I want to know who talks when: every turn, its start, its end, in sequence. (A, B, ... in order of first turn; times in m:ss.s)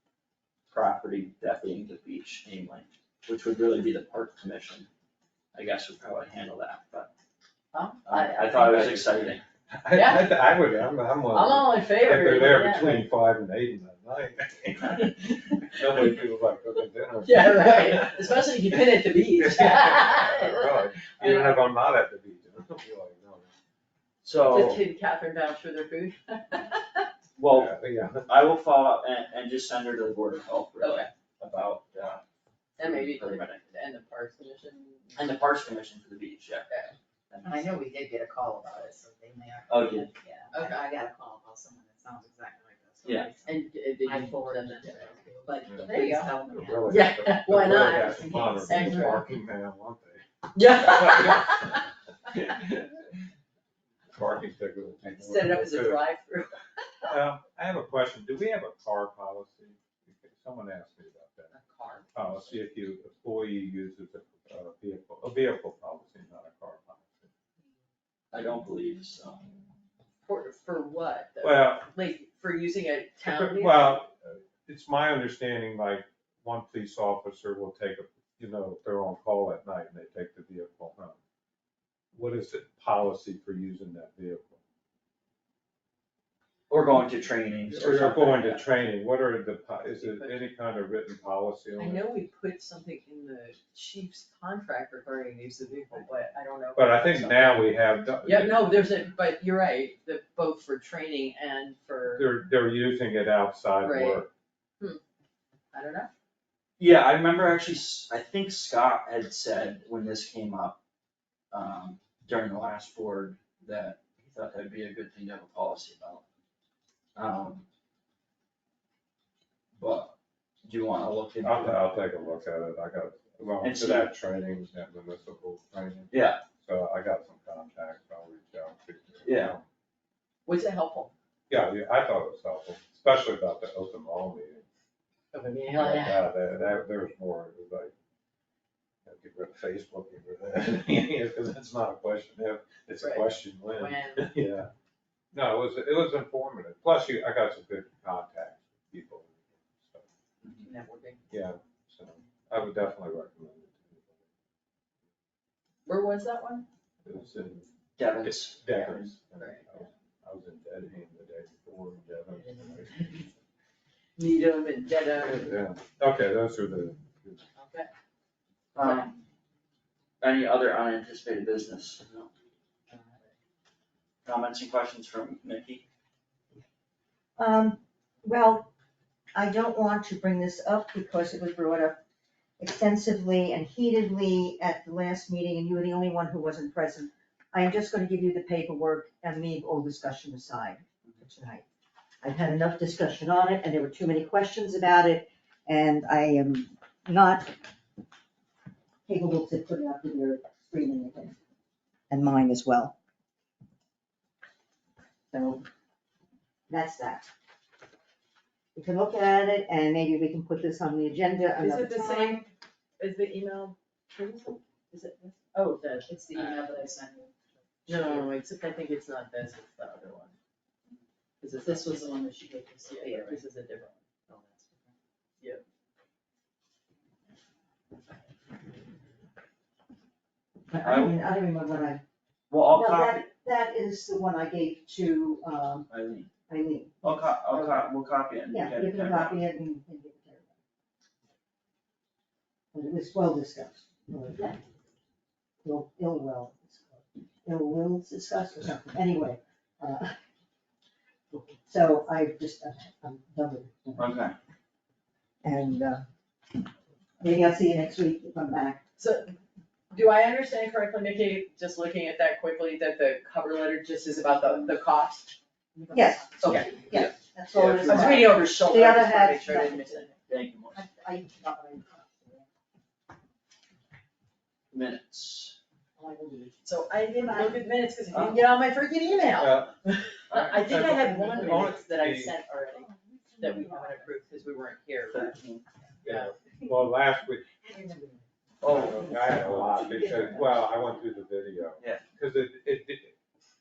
0:00.7-0:04.9 A
0:05.5-0:07.1 A
0:07.7-0:09.0 B
0:08.0-0:09.4 A
0:08.7-0:09.0 C
0:09.7-0:23.5 C
0:09.9-0:10.4 B
0:11.3-0:13.1 B
0:17.2-0:21.6 B
0:24.2-0:24.8 A
0:24.4-0:24.8 C
0:24.5-0:27.1 B
0:27.4-0:27.7 A
0:27.4-0:28.4 C
0:28.3-0:32.2 A
0:30.8-0:31.1 B
0:32.8-0:35.3 B
0:32.8-0:33.6 A
0:35.2-0:36.7 A
0:36.7-0:37.0 B
0:37.3-0:37.8 A
0:37.4-0:47.1 D
0:39.7-0:40.1 A
0:40.5-0:40.9 B
0:43.0-0:43.3 A
0:43.4-0:49.4 B
0:45.7-0:51.8 C
0:47.7-0:48.9 D
0:50.6-0:51.8 B
0:52.3-0:52.9 C
0:54.1-0:56.1 C
0:55.0-0:57.1 B
0:57.1-1:01.5 C
1:01.6-1:02.0 B
1:02.1-1:07.3 C
1:08.3-1:09.4 A
1:10.2-1:14.0 B
1:11.4-1:11.9 C
1:13.2-1:21.2 C
1:22.1-1:24.6 C
1:26.7-1:28.7 A
1:27.7-1:32.1 C
1:30.0-1:30.4 B
1:31.8-1:42.3 B
1:36.8-1:39.1 C
1:42.2-1:44.3 C
1:43.8-1:44.2 B
1:45.7-1:46.1 B
1:46.8-1:50.8 A
1:51.5-1:56.2 A
1:57.2-1:57.7 A
1:59.8-2:01.8 A
2:01.4-2:09.6 C
2:03.6-2:04.1 A
2:06.1-2:06.4 A
2:09.2-2:09.6 A
2:10.5-2:11.1 B
2:11.5-2:14.7 C
2:15.3-2:16.2 B
2:15.7-2:17.9 C
2:19.1-2:24.7 C
2:23.0-2:24.4 B
2:25.3-2:30.1 C
2:30.6-2:31.2 B
2:31.3-2:34.2 C
2:35.9-2:36.7 B
2:37.0-2:37.7 C
2:38.0-2:39.1 A
2:38.2-2:43.2 C
2:39.4-2:39.7 B
2:42.4-2:42.8 B
2:44.2-2:45.6 B
2:45.2-2:47.4 C
2:47.6-2:47.9 B
2:48.8-2:49.2 A
2:48.8-2:49.1 B
2:50.2-2:52.3 A
2:52.9-2:53.3 B
2:54.2-2:55.8 A
2:57.4-2:58.7 E
2:59.3-3:02.0 E
3:02.6-3:11.6 E
3:12.2-3:17.5 E
3:19.1-3:21.4 E
3:22.1-3:23.0 E
3:25.3-3:25.6 E
3:26.7-3:27.3 E
3:28.8-3:32.4 E
3:31.6-3:36.8 B
3:36.2-3:38.3 D
3:37.9-3:40.3 B
3:41.4-3:44.1 B
3:41.6-3:43.4 D
3:44.3-3:45.0 D
3:50.7-3:52.0 E
3:50.8-3:51.2 A
3:52.5-3:53.3 A
3:52.7-3:55.9 E
3:55.9-3:56.3 A
3:56.5-3:57.9 E
3:57.0-3:59.4 A
3:58.5-4:00.5 E
4:02.7-4:04.6 E
4:05.6-4:10.2 E
4:11.3-4:14.2 E
4:14.0-4:14.4 A
4:15.4-4:16.0 E
4:17.2-4:18.8 E
4:19.0-4:19.4 B
4:19.9-4:25.4 B
4:25.8-4:26.4 D
4:25.9-4:30.1 E
4:26.4-4:26.8 B
4:26.5-4:28.6 A
4:27.8-4:30.2 B
4:30.3-4:30.8 A
4:30.7-4:32.5 E
4:34.7-4:35.6 A
4:36.0-4:36.6 E
4:36.6-4:45.4 B
4:37.2-4:37.6 E
4:38.1-4:38.4 A
4:39.3-4:39.8 C
4:40.3-4:42.4 C
4:41.1-4:41.6 E
4:42.8-4:43.9 D
4:45.1-4:45.6 A
4:46.0-4:47.5 C
4:46.0-4:46.3 B
4:47.6-4:48.2 E
4:48.6-4:50.2 A
4:48.6-4:53.1 C
4:48.7-4:50.4 E